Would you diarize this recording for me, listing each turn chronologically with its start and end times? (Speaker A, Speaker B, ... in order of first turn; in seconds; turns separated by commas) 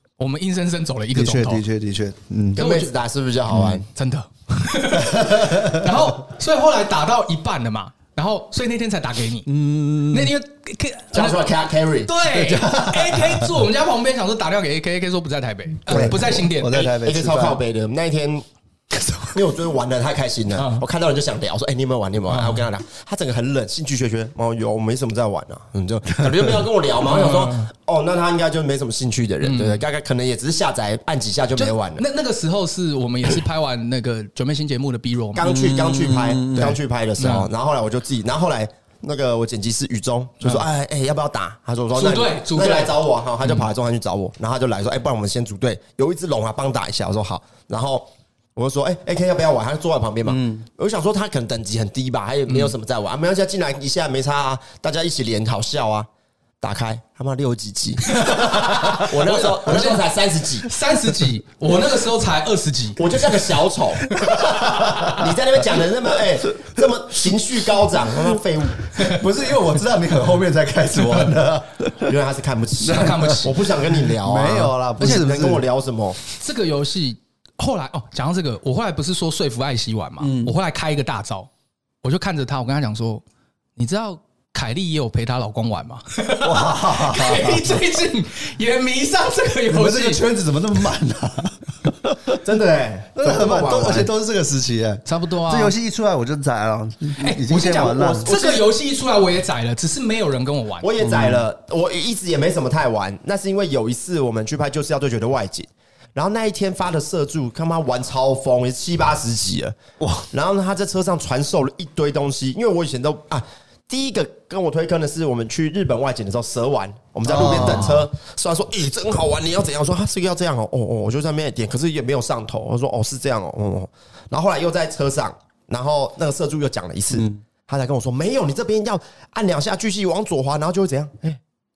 Speaker A: 0.2-1.6, Speaker B: 1.1-2.6, Speaker C: 2.5-3.9, Speaker A: 2.6-2.9, Speaker B: 3.5-3.8, Speaker A: 3.9-9.5, Speaker B: 5.0-5.8, Speaker B: 9.5-10.3, Speaker A: 10.1-16.9, Speaker C: 11.1-12.1, Speaker B: 12.3-13.6, Speaker B: 15.9-17.6, Speaker C: 15.9-16.2, Speaker C: 16.9-18.4, Speaker C: 19.3-32.0, Speaker A: 20.6-20.9, Speaker A: 22.3-22.7, Speaker A: 27.0-27.7, Speaker A: 29.4-29.8, Speaker A: 31.6-35.5, Speaker C: 35.4-56.1, Speaker B: 35.4-36.8, Speaker A: 37.2-37.5, Speaker A: 42.0-43.7, Speaker B: 50.3-50.6, Speaker C: 56.6-60.7, Speaker A: 58.1-60.0, Speaker A: 60.6-63.0, Speaker C: 63.0-64.2, Speaker A: 64.1-65.2, Speaker B: 64.8-65.1, Speaker C: 65.1-68.9, Speaker B: 69.0-72.1, Speaker C: 72.0-76.2, Speaker B: 72.8-75.7, Speaker A: 72.9-73.6, Speaker A: 76.3-81.5, Speaker B: 80.2-80.5, Speaker A: 82.0-83.2, Speaker A: 83.8-90.2, Speaker B: 86.4-87.8, Speaker B: 89.7-92.4, Speaker C: 92.4-94.1, Speaker B: 93.2-98.3, Speaker A: 95.1-95.7, Speaker A: 97.2-100.9, Speaker C: 97.8-98.7, Speaker C: 100.8-109.8, Speaker B: 101.0-101.5, Speaker B: 110.0-110.3, Speaker C: 110.3-131.4, Speaker B: 117.2-118.1, Speaker B: 127.1-127.4